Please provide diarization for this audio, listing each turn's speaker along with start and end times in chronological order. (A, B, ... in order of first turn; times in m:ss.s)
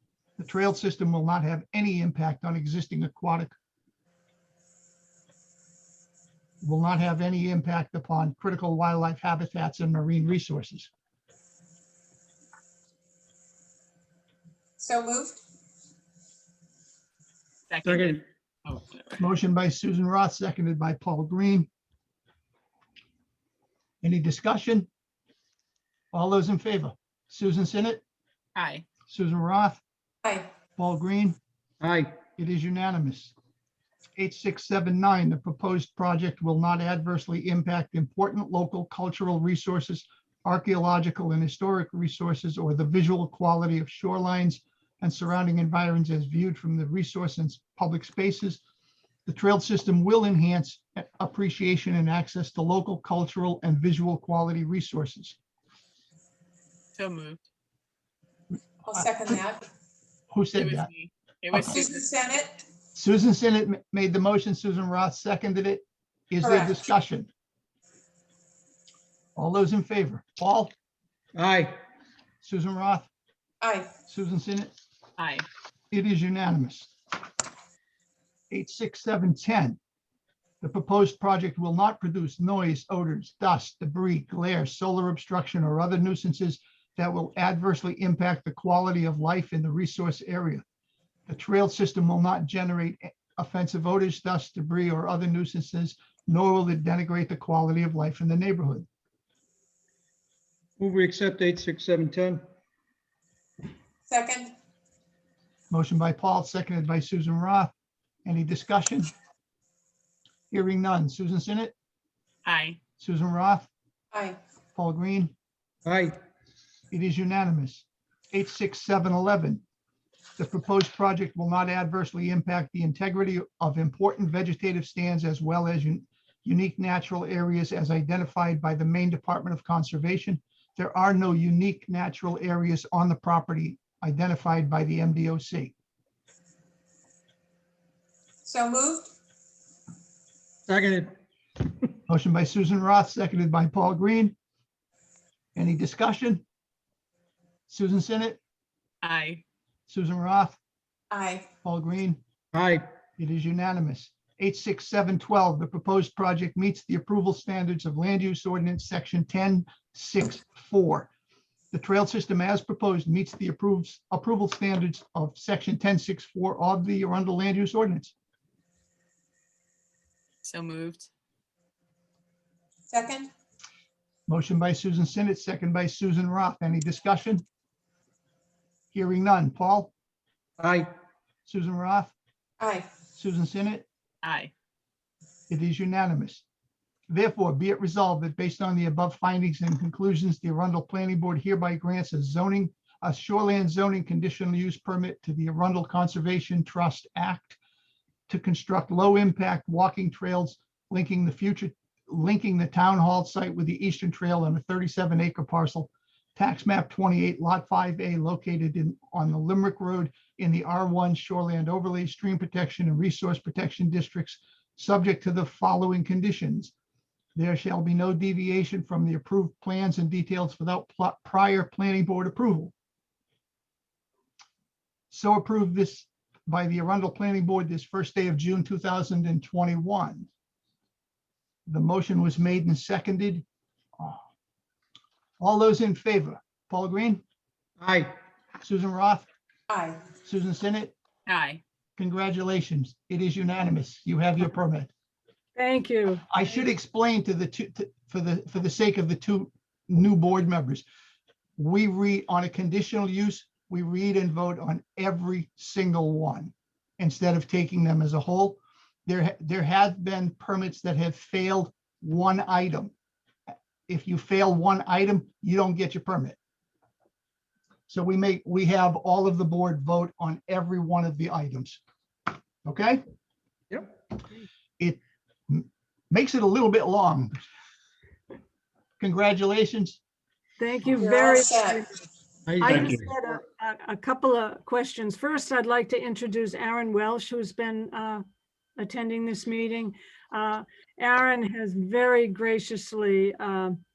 0:00.4-0:03.6 A
0:06.6-0:10.9 A
0:14.8-0:15.4 B
0:17.7-0:18.2 C
0:17.8-0:18.2 D
0:18.7-0:19.2 C
0:19.2-0:21.7 A
0:24.0-0:24.9 A
0:26.1-0:28.0 A
0:28.6-0:28.8 C
0:29.1-0:29.8 A
0:30.8-0:31.4 A
0:31.8-0:32.2 D
0:32.4-0:33.3 A
0:34.2-0:48.6 A
0:49.3-0:55.4 A
0:57.0-0:57.4 C
0:58.8-0:59.6 B
1:00.3-1:00.9 A
1:00.6-1:01.9 C
1:01.7-1:02.6 B
1:03.0-1:07.3 A
1:06.4-1:06.8 B
1:09.4-1:10.7 A
1:11.4-1:11.8 D
1:12.4-1:13.1 A
1:13.6-1:13.9 B
1:14.1-1:14.7 A
1:15.2-1:15.5 C
1:15.9-1:16.9 A
1:18.5-1:19.8 A
1:20.6-1:30.6 A
1:31.3-1:38.9 A
1:40.8-1:42.4 D
1:44.1-1:44.5 B
1:45.7-1:47.7 A
1:48.2-1:49.1 A
1:50.5-1:51.7 A
1:52.5-1:52.8 C
1:53.0-1:53.7 A
1:54.1-1:54.4 B
1:54.8-1:55.3 A
1:55.8-1:56.2 D
1:56.9-1:59.6 A
2:00.4-2:15.7 A
2:18.4-2:19.1 B
2:20.7-2:21.1 D
2:22.1-2:24.4 A
2:25.6-2:26.4 A
2:27.7-2:28.4 A
2:29.0-2:29.4 C
2:29.9-2:30.6 A
2:31.1-2:31.5 B
2:31.6-2:32.2 A
2:32.5-2:32.8 D
2:33.2-2:41.1 A
2:41.7-2:48.1 A
2:50.4-2:51.1 C
2:52.9-2:53.3 B
2:54.3-2:57.4 A
2:58.9-2:59.9 A
3:00.6-3:00.9 D
3:01.5-3:02.1 A
3:02.6-3:02.9 B
3:03.1-3:03.9 A
3:04.2-3:04.5 C
3:05.5-3:06.4 A
3:07.1-3:17.6 A
3:18.3-3:36.7 A
3:37.4-3:42.7 A
3:45.1-3:50.3 A
3:51.7-3:53.4 A
3:55.4-3:57.2 A
3:57.8-3:58.2 D
3:58.6-3:59.3 A
3:59.7-4:00.0 B
4:00.2-4:01.0 A
4:01.3-4:01.6 C
4:02.0-4:04.9 A
4:05.6-4:06.2 E
4:06.3-4:10.8 A
4:11.6-4:22.9 A
4:23.9-4:26.4 A
4:27.9-4:31.8 A
4:32.6-4:33.0 A
4:34.8-4:37.5 A
4:39.0-4:40.0 A
4:40.6-4:42.0 E
4:41.0-4:41.8 B
4:42.5-4:43.1 D
4:42.6-4:48.2 E
4:48.8-4:53.8 E